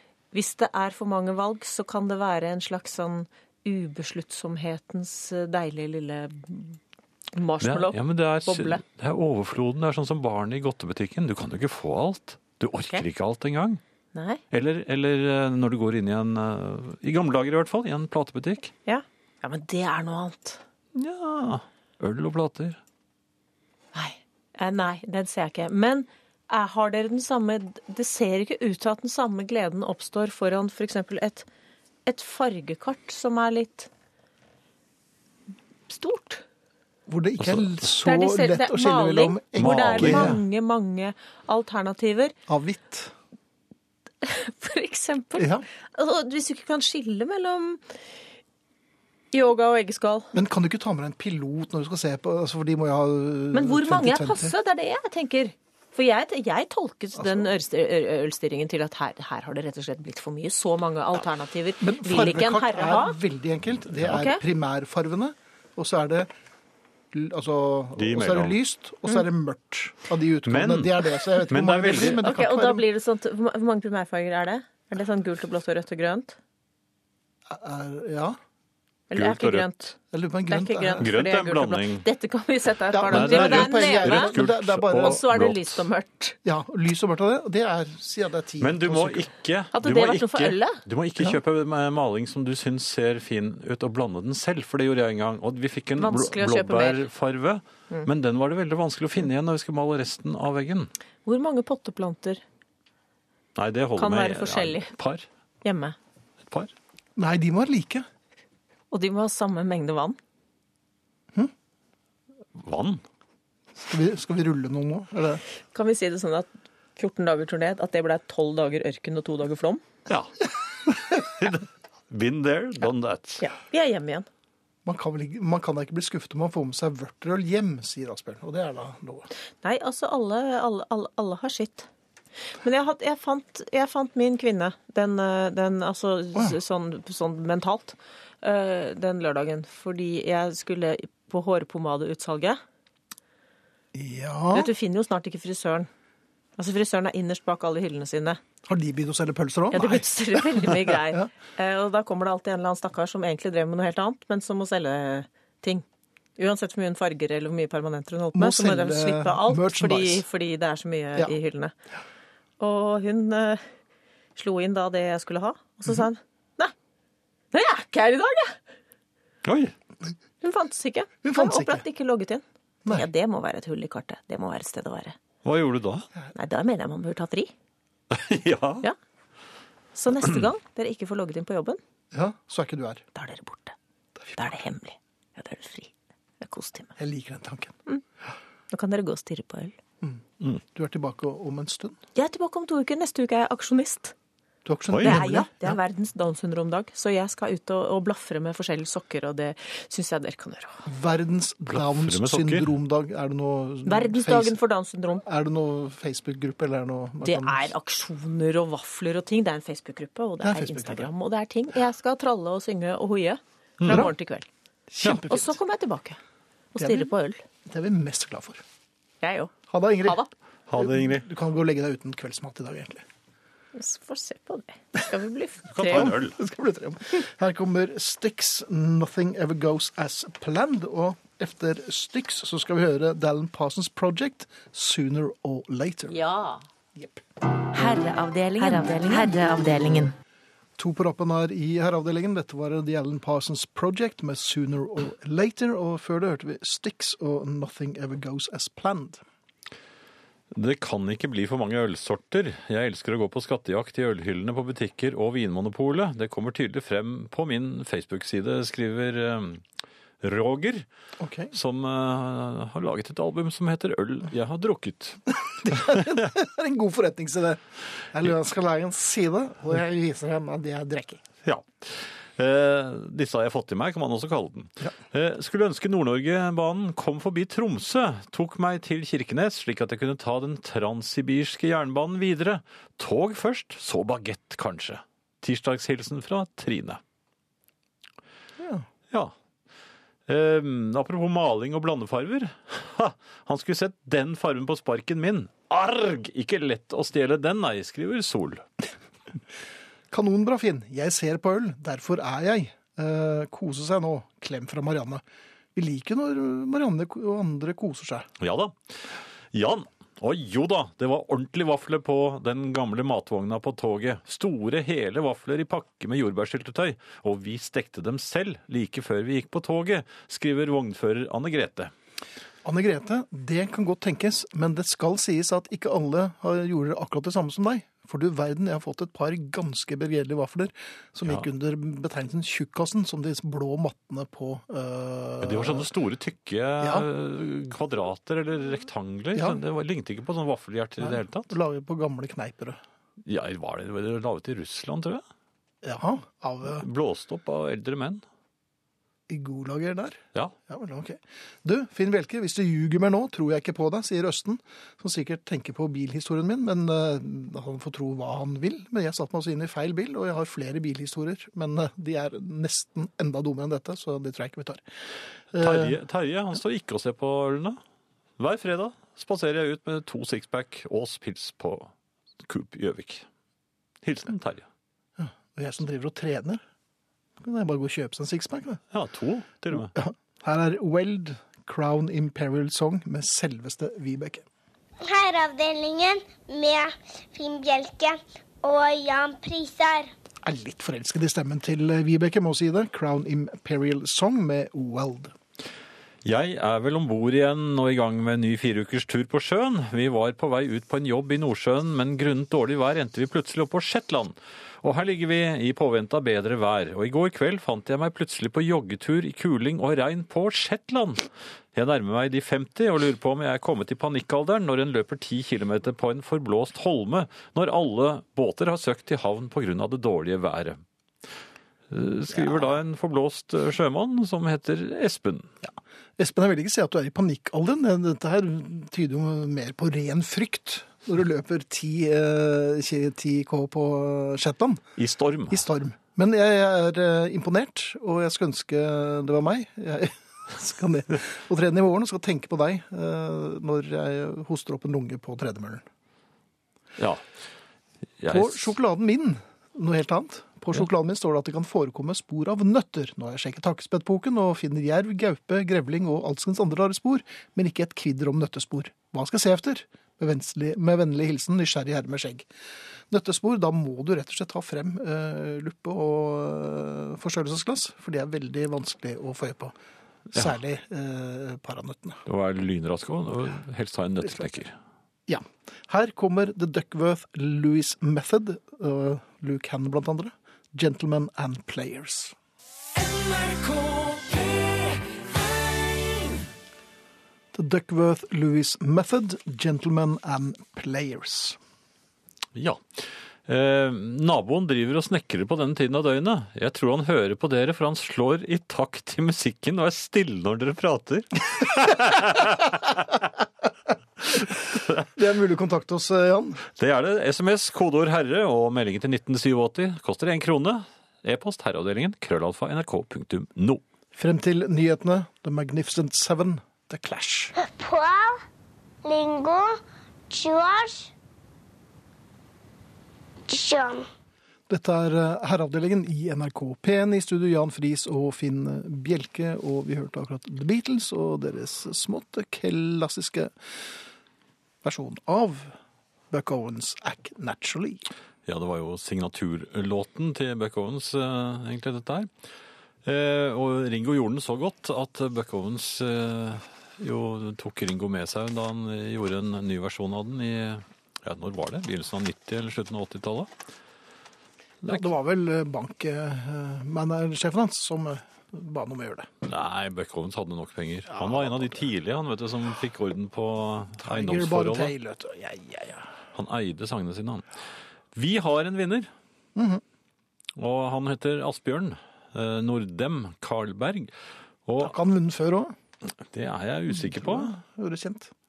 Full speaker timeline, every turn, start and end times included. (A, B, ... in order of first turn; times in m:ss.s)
0:00.3-0:06.8 A
0:07.3-0:08.8 A
0:07.6-0:13.8 B
0:14.1-0:14.4 A
0:14.5-0:18.7 B
0:18.9-0:20.6 A
0:21.0-0:22.8 B
0:23.9-0:31.5 A
0:32.1-0:33.9 A
0:35.9-0:36.4 A
0:37.1-0:40.4 C
0:37.4-0:37.7 B
0:38.0-0:42.4 A
0:39.6-0:40.4 B
0:42.5-0:43.2 C
0:44.2-0:47.8 A
0:45.4-0:45.7 C
0:49.3-0:50.3 A
0:50.3-0:54.5 C
0:53.5-1:03.2 A
0:57.2-0:57.5 C
1:01.8-1:06.3 C
1:04.1-1:04.4 A
1:07.1-1:12.8 C
1:08.0-1:08.6 B
1:10.4-1:12.2 B
1:12.2-1:16.4 A
1:17.5-1:18.4 C
1:19.1-1:20.0 A
1:19.1-1:19.7 B
1:20.1-1:21.1 C
1:20.5-1:24.3 A
1:21.0-1:22.0 B
1:22.9-1:25.2 C
1:23.1-1:25.8 B
1:24.9-1:26.4 A
1:26.4-1:29.3 C
1:28.6-1:40.9 B
1:29.7-1:30.8 A
1:36.0-1:37.0 A
1:41.3-1:42.4 A
1:43.6-1:45.3 B
1:44.0-1:44.9 A
1:45.6-1:46.0 A
1:47.2-1:48.1 C
1:48.9-1:50.2 A
1:52.6-1:53.0 B
1:53.8-1:55.4 C
1:55.7-1:59.8 A
2:00.1-2:03.4 B
2:03.4-2:04.3 A
2:04.8-2:09.3 C
2:09.6-2:11.9 A
2:12.6-2:22.6 A
2:23.9-2:24.7 C
2:24.5-2:25.9 A
2:26.6-2:28.4 A
2:28.6-2:31.3 C
2:29.7-2:35.8 A
2:36.4-2:41.7 A
2:38.3-2:40.3 C
2:42.6-2:43.6 A
2:44.4-2:46.7 A
2:47.5-2:48.6 A
2:49.4-2:49.7 B
2:50.4-2:55.2 A
2:51.2-2:51.8 C
2:55.4-2:56.1 B
2:56.3-2:57.5 A
2:58.1-2:58.8 B
3:00.0-3:01.8 A
3:02.1-3:03.0 C
3:03.2-3:03.8 A
3:04.4-3:06.9 A
3:07.0-3:07.8 C
3:08.7-3:09.8 A
3:10.0-3:12.0 C
3:12.2-3:14.1 A
3:14.6-3:15.8 C
3:14.9-3:15.2 B
3:15.0-3:20.8 A
3:20.9-3:24.6 C
3:21.7-3:22.7 B
3:23.8-3:25.2 A
3:25.2-3:27.7 C
3:27.2-3:34.5 A
3:30.4-3:31.1 C
3:33.8-3:34.1 B
3:34.9-3:35.5 C
3:35.2-3:36.2 A
3:36.7-3:37.4 A
3:36.8-3:37.1 C
3:37.6-3:38.6 C
3:39.2-3:40.3 A
3:39.7-3:40.2 C
3:40.7-3:41.3 B
3:40.7-3:43.0 C
3:43.8-3:46.1 A
3:45.7-3:46.4 B
3:45.8-3:56.2 C
3:56.1-3:56.6 A
3:57.0-3:57.2 C
3:57.7-4:00.1 A
4:00.8-4:09.2 C
4:10.6-4:19.6 B
4:20.2-4:20.9 B
4:21.2-4:21.5 C
4:21.5-4:26.1 B
4:25.5-4:31.2 C
4:31.4-4:47.0 B
4:48.6-4:48.9 C
4:50.3-4:58.6 B
5:00.1-5:05.2 C
5:05.8-5:08.3 C
5:08.4-5:21.9 B
5:22.6-5:35.9 C
5:35.4-5:41.5 B
5:36.8-5:37.1 C
5:39.4-5:39.6 C
5:41.0-5:42.8 C
5:43.3-5:45.2 B
5:45.8-5:46.8 C
5:46.6-5:48.2 B
5:49.3-6:04.8 C
6:05.5-6:06.0 C
6:05.6-6:07.8 B
6:08.4-6:11.9 B
6:12.4-6:13.3 B
6:14.0-6:14.7 B
6:15.2-6:16.6 C
6:17.4-6:18.8 C
6:18.9-6:19.9 B
6:19.7-6:24.4 C
6:25.0-6:30.1 D
6:30.4-6:35.3 C
6:36.2-7:00.8 B
7:01.9-7:05.5 B
7:02.3-7:02.6 C
7:05.7-7:14.8 C
7:15.0-7:15.7 B
7:15.5-7:25.8 C
7:27.0-7:27.2 B
7:28.2-7:28.7 B
7:28.3-7:42.5 C
7:43.1-7:49.8 C
7:50.3-7:52.2 C
7:52.3-7:54.8 B
7:55.3-8:02.4 C
8:07.5-8:11.6 C
8:12.6-8:23.1 B
8:24.3-8:25.1 B
8:25.2-8:26.6 C
8:26.8-8:33.8 B
8:34.2-8:37.5 C
8:37.6-8:38.4 D
8:39.0-8:41.1 D
8:43.5-8:44.1 D
8:44.7-8:53.5 C
8:54.8-8:55.8 C
8:56.3-8:58.1 C
8:58.5-9:02.3 B
9:03.0-9:13.5 B
9:14.8-9:19.3 C
9:19.4-9:24.9 B
9:21.1-9:21.8 C
9:24.0-9:26.1 C
9:26.4-9:27.5 B
9:28.2-9:29.1 B
9:29.6-9:29.8 C
9:30.6-9:34.1 B
9:34.7-9:35.0 B
9:34.8-9:35.7 C
9:36.3-9:37.5 B
9:36.9-9:38.3 C